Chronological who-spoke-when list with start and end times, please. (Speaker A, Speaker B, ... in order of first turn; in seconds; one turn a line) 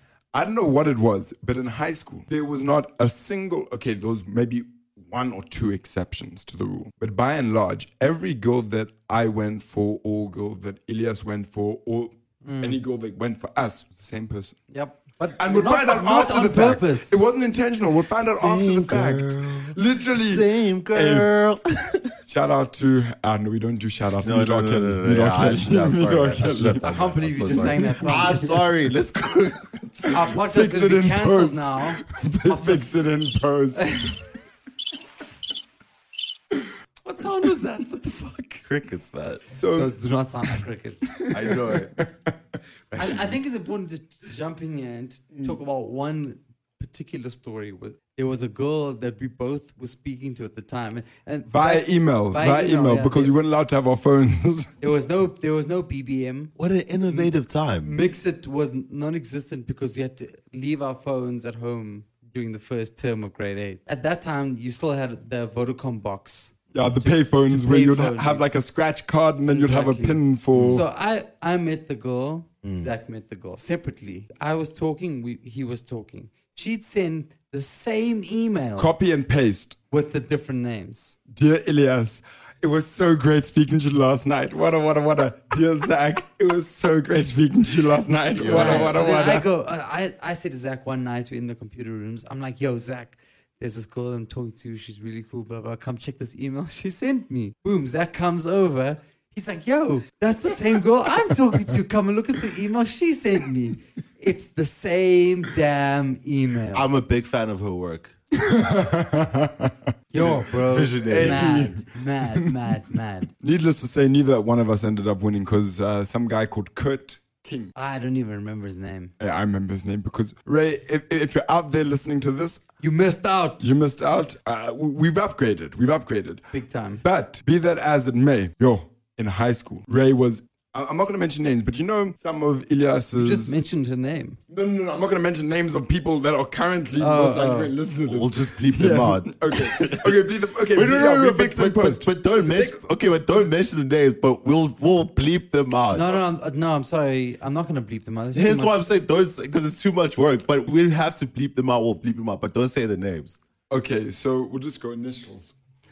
Speaker A: 0.3-14.6
Speaker B: 12.4-12.8
Speaker B: 14.7-17.2
Speaker A: 15.4-21.3
Speaker C: 18.2-22.1
Speaker A: 22.2-28.4
Speaker C: 24.2-30.1
Speaker B: 26.8-28.6
Speaker A: 30.0-34.2
Speaker B: 30.1-32.8
Speaker B: 33.8-34.2
Speaker B: 37.0-38.6
Speaker C: 38.6-39.4
Speaker A: 39.5-39.9
Speaker B: 39.7-41.2
Speaker A: 40.5-42.3
Speaker C: 41.3-41.9
Speaker C: 42.9-43.3
Speaker B: 43.0-53.3
Speaker A: 51.5-54.7
Speaker B: 54.8-56.5
Speaker C: 56.6-57.9
Speaker B: 57.0-57.3
Speaker B: 57.8-68.4
Speaker A: 66.7-70.8
Speaker B: 69.5-78.9
Speaker C: 70.5-70.8
Speaker C: 72.6-72.9
Speaker A: 78.8-79.8
Speaker B: 79.9-81.2
Speaker A: 81.3-89.5
Speaker C: 88.3-89.0
Speaker B: 88.4-106.9
Speaker C: 106.7-108.1
Speaker A: 108.3-110.3
Speaker B: 110.1-113.3
Speaker C: 110.2-111.5
Speaker A: 111.0-112.5
Speaker A: 113.4-117.7
Speaker B: 117.8-119.1
Speaker A: 119.2-122.6
Speaker B: 122.8-123.7
Speaker A: 123.6-126.4
Speaker B: 126.5-127.0
Speaker A: 127.0-133.5
Speaker B: 133.1-134.4
Speaker A: 134.5-142.8
Speaker B: 137.0-137.7
Speaker C: 138.1-140.2
Speaker C: 140.7-146.2
Speaker B: 145.9-148.8
Speaker C: 148.3-153.4
Speaker A: 153.7-155.5